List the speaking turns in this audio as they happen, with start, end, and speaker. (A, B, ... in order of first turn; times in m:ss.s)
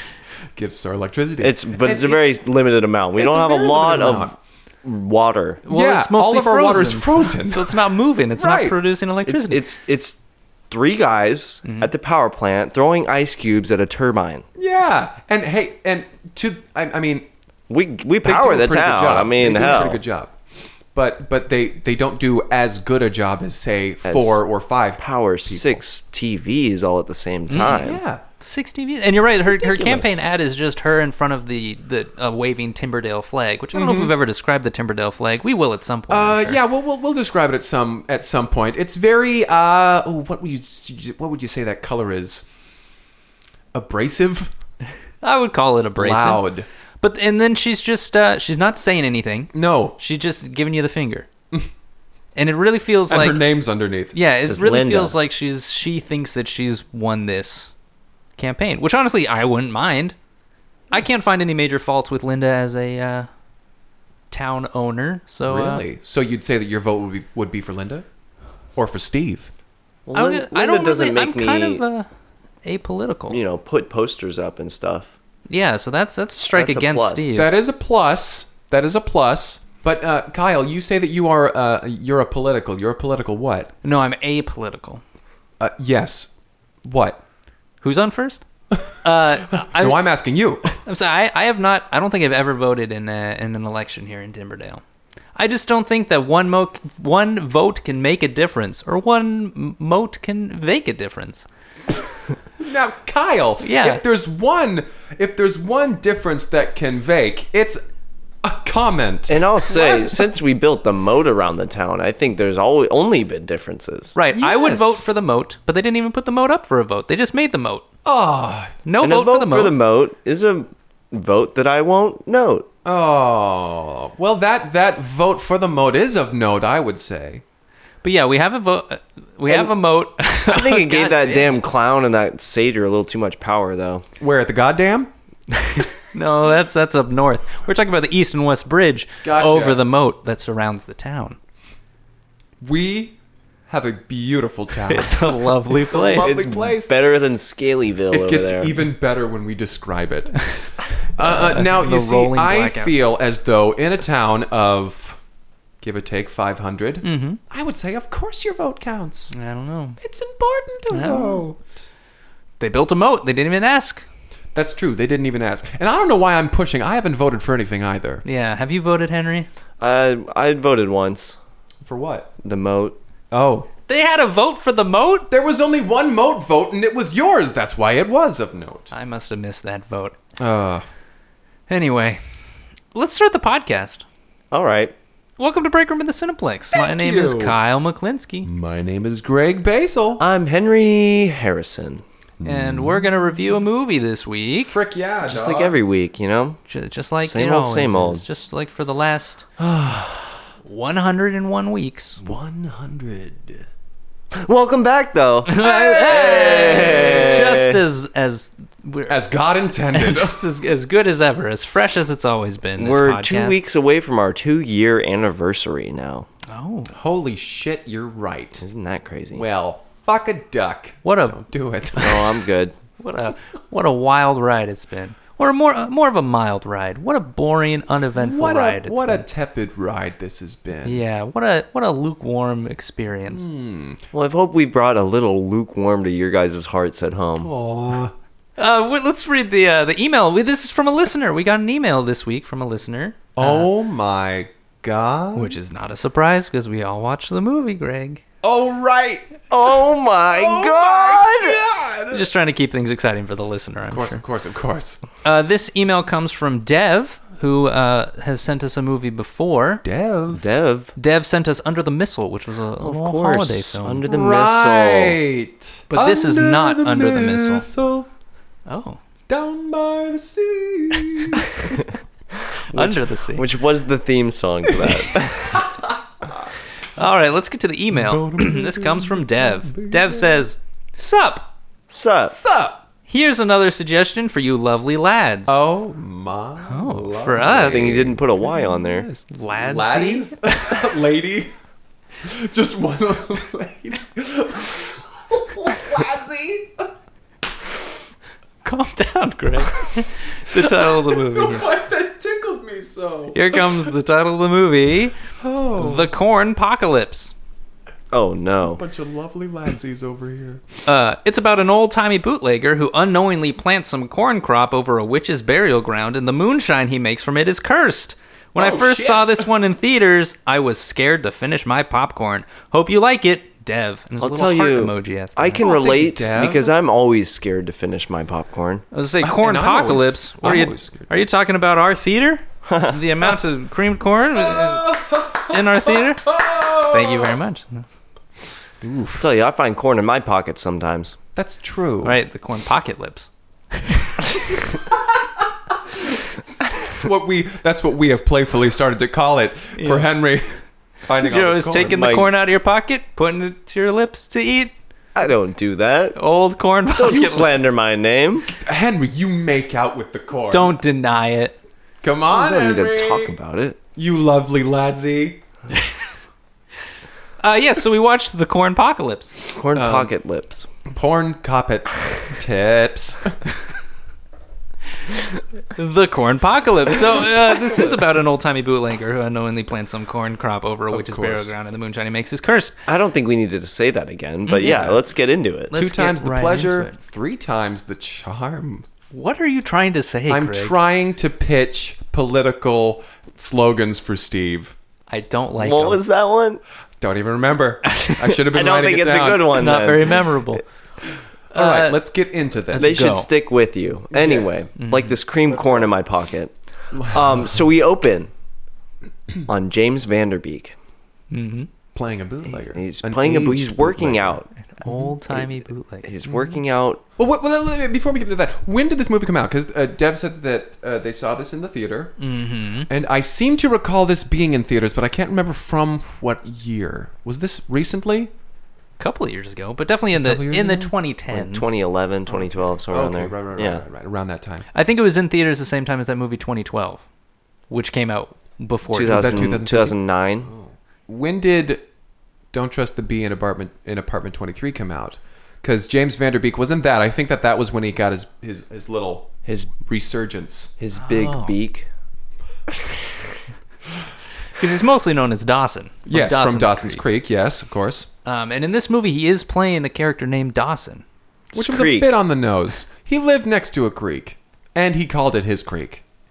0:00.5-0:02.2 A
0:01.4-0:05.6 B
0:03.2-0:04.4 A
0:05.6-0:09.6 C
0:05.7-0:07.7 A
0:08.4-0:08.8 A
0:09.3-0:10.2 B
0:10.7-0:14.4 B
0:11.6-0:11.9 C
0:14.6-0:17.3 A
0:17.7-0:20.0 B
0:18.2-0:20.3 A
0:20.9-0:25.8 A
0:24.0-0:24.4 B
0:25.0-0:28.0 B
0:27.5-0:27.8 C
0:27.6-0:28.2 A
0:28.4-0:36.6 C
0:29.4-0:30.2 A
0:33.7-0:34.1 A
0:36.1-0:42.4 A
0:43.7-0:44.5 A
0:45.2-0:46.4 C
0:46.0-0:46.7 A
0:47.0-0:51.3 C
0:49.5-0:50.0 A
0:52.3-0:53.4 C
0:53.1-0:54.2 A
0:54.1-0:57.7 C
0:54.4-0:55.2 B
0:58.4-1:00.1 C
1:00.9-1:03.3 C
1:04.3-1:05.8 C
1:05.5-1:08.0 A
1:08.8-1:09.5 A
1:10.1-1:11.8 B
1:10.1-1:12.1 C
1:12.6-1:13.4 C
1:13.3-1:15.1 B
1:15.5-1:17.5 C
1:16.5-1:17.4 B
1:17.3-1:23.7 A
1:23.8-1:25.0 C
1:25.6-1:26.3 A
1:26.8-1:27.2 A
1:27.8-1:28.4 C
1:29.0-1:30.0 C
1:29.5-1:30.8 A
1:30.8-1:34.8 C
1:35.4-1:41.4 C
1:42.6-1:47.8 A
1:43.6-1:44.0 C
1:48.4-1:50.3 A
1:49.3-1:54.1 B
1:54.1-1:57.8 C
1:54.3-1:55.0 A
1:58.0-1:58.8 A
1:58.8-1:59.8 C
1:59.0-2:02.7 B
2:02.8-2:07.4 A
2:08.0-2:11.6 C
2:09.4-2:09.7 B
2:10.5-2:14.0 B
2:14.2-2:15.1 A
2:15.6-2:21.4 C
2:19.2-2:19.8 A
2:22.6-2:23.2 A
2:23.7-2:27.0 A
2:24.9-2:26.4 C
2:26.2-2:28.7 B
2:28.1-2:30.4 A
2:31.1-2:35.2 A
2:31.2-2:33.0 C
2:35.8-2:39.3 A
2:37.0-2:37.4 C
2:39.3-2:40.0 C
2:40.0-2:41.6 A
2:40.9-2:41.5 C
2:42.6-2:44.0 C
2:44.5-2:48.2 A
2:48.2-2:49.5 C
2:49.8-2:51.4 B
2:51.8-2:52.3 A
2:52.4-2:53.0 B
2:53.3-2:53.7 A
2:53.9-2:55.3 C
2:55.3-2:58.9 A
2:58.9-3:00.2 C
3:00.4-3:00.8 A
3:01.7-3:02.2 C
3:02.9-3:04.0 C
3:04.5-3:04.9 B
3:05.4-3:08.5 C
3:06.7-3:07.6 A
3:08.4-3:10.2 A
3:10.2-3:12.0 B
3:12.4-3:13.1 A
3:12.4-3:14.8 C
3:14.7-3:15.7 A
3:15.2-3:16.6 B
3:16.7-3:19.4 C
3:17.2-3:18.2 B
3:19.6-3:20.4 B
3:20.6-3:22.2 C
3:22.2-3:23.3 A
3:24.3-3:27.8 B
3:25.4-3:29.2 C
3:26.4-3:27.4 A
3:29.1-3:30.4 A
3:29.9-3:33.6 C
3:32.8-3:36.3 B
3:36.5-3:36.9 C
3:36.9-3:38.6 A
3:38.6-3:39.4 B
3:39.3-3:42.4 A
3:41.0-3:41.4 C
3:42.0-3:42.8 B
3:43.0-3:49.2 C
3:48.1-3:51.0 A
3:50.8-3:53.4 C
3:53.3-3:54.0 A
3:54.1-3:57.5 B
3:57.4-3:58.1 A
3:58.6-4:03.7 C
4:03.4-4:05.5 A
4:05.3-4:08.2 C
4:08.4-4:09.5 A
4:09.5-4:11.6 B
4:10.3-4:12.3 A
4:12.1-4:14.2 C
4:13.9-4:15.0 A
4:15.2-4:19.8 C
4:19.8-4:20.4 A
4:20.3-4:20.9 B
4:21.0-4:24.0 C
4:22.8-4:25.2 B
4:24.0-4:28.1 A
4:25.9-4:27.7 C
4:28.7-4:29.0 C
4:29.3-4:31.7 A
4:32.7-4:33.5 C
4:32.7-4:35.6 B
4:35.5-4:36.5 A
4:37.0-4:41.5 C
4:37.9-4:40.4 A
4:41.9-4:42.4 B
4:42.2-4:42.8 A
4:43.1-4:45.6 C
4:45.5-4:51.5 A
4:46.6-4:48.0 C
4:47.6-4:49.1 B
4:49.3-4:50.4 C
4:52.2-4:56.9 A
4:58.6-5:01.6 C
5:00.5-5:03.9 A
5:03.3-5:05.1 C
5:05.4-5:06.1 A
5:05.8-5:07.3 C
5:08.1-5:08.8 B
5:08.6-5:10.6 A
5:10.8-5:25.6 C
5:18.6-5:19.4 A
5:24.2-5:28.8 B
5:25.6-5:26.7 A
5:28.9-5:36.3 C
5:29.2-5:31.2 A
5:32.6-5:33.0 B
5:34.4-5:37.3 A
5:36.9-5:37.8 C
5:38.8-5:39.2 A
5:39.2-5:41.2 B
5:41.4-5:42.2 A
5:42.0-5:44.3 C
5:45.9-5:52.2 A
5:49.8-5:50.0 C
5:51.2-5:54.7 C
5:51.8-5:52.3 B
5:55.1-5:56.2 B
5:56.1-5:57.7 C
5:56.9-5:58.5 B
5:57.1-5:57.4 A
5:58.5-6:00.8 A
6:00.5-6:01.6 C
6:02.0-6:03.3 A
6:02.3-6:03.8 B
6:04.0-6:05.4 A
6:07.4-6:09.4 C
6:09.5-6:10.7 B
6:09.7-6:10.1 A
6:10.9-6:13.4 A
6:15.7-6:22.7 C
6:20.9-6:21.5 A
6:22.8-6:25.7 B
6:24.6-6:25.0 A
6:25.7-6:27.0 C
6:25.7-6:28.8 A
6:29.1-6:30.7 C
6:30.3-6:34.7 A
6:35.1-6:36.0 C
6:35.6-6:36.6 B
6:37.0-6:39.6 A
6:38.2-6:40.2 B
6:39.5-6:40.6 C
6:41.5-6:42.0 C
6:41.5-6:43.1 A
6:42.7-6:43.3 C
6:42.8-6:46.5 B
6:44.1-6:44.6 A
6:44.8-6:45.2 C
6:45.5-6:45.9 A
6:46.9-6:47.5 A
6:47.1-6:48.3 B
6:49.5-6:50.7 B
6:51.3-6:51.7 C
6:51.9-6:55.0 A
6:52.5-6:54.5 B
6:54.7-6:56.1 C
6:55.3-6:57.0 B
6:57.2-7:02.2 A
7:02.2-7:02.9 C
7:02.9-7:08.3 A
7:09.0-7:11.7 C
7:10.1-7:10.9 A
7:11.3-7:13.8 B
7:12.3-7:14.7 A
7:14.7-7:17.0 C
7:17.7-7:19.4 C
7:18.9-7:20.5 B
7:19.0-7:21.8 A
7:22.5-7:30.8 A
7:29.5-7:29.7 B
7:30.8-7:31.9 B
7:31.0-7:31.6 C
7:34.6-7:37.0 C
7:36.1-7:38.1 A
7:38.2-7:41.0 C
7:41.5-7:42.1 B
7:41.5-7:46.0 A